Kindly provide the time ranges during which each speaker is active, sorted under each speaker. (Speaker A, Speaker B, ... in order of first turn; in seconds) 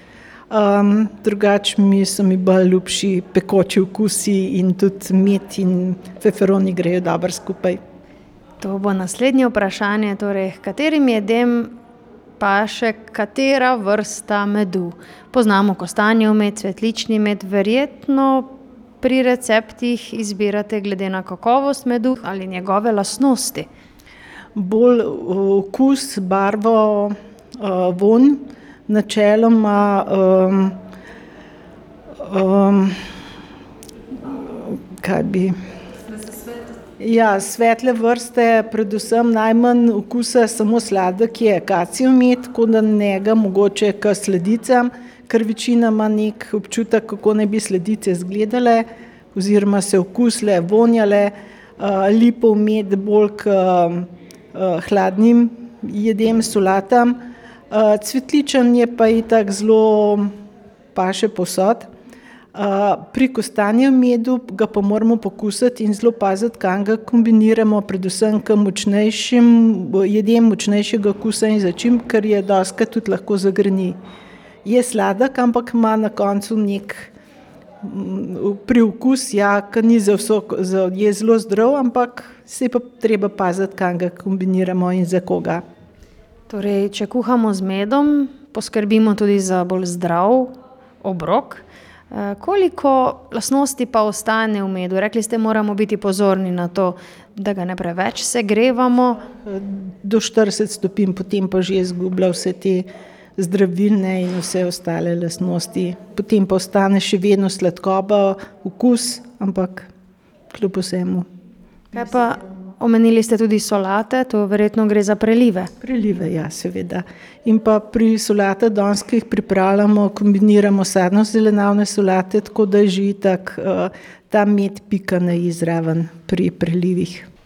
Speaker A: 0.5-7.8, 24.6-30.8, 32.2-33.0, 34.2-35.5, 37.0-57.2, 57.7-60.3, 60.9-61.9, 62.5-74.0, 74.6-77.1, 77.8-85.6, 99.4-109.9, 110.5-111.2, 115.8-127.3
Speaker B: 8.6-11.7, 12.4-18.5, 19.0-23.7, 86.5-99.2, 111.9-115.7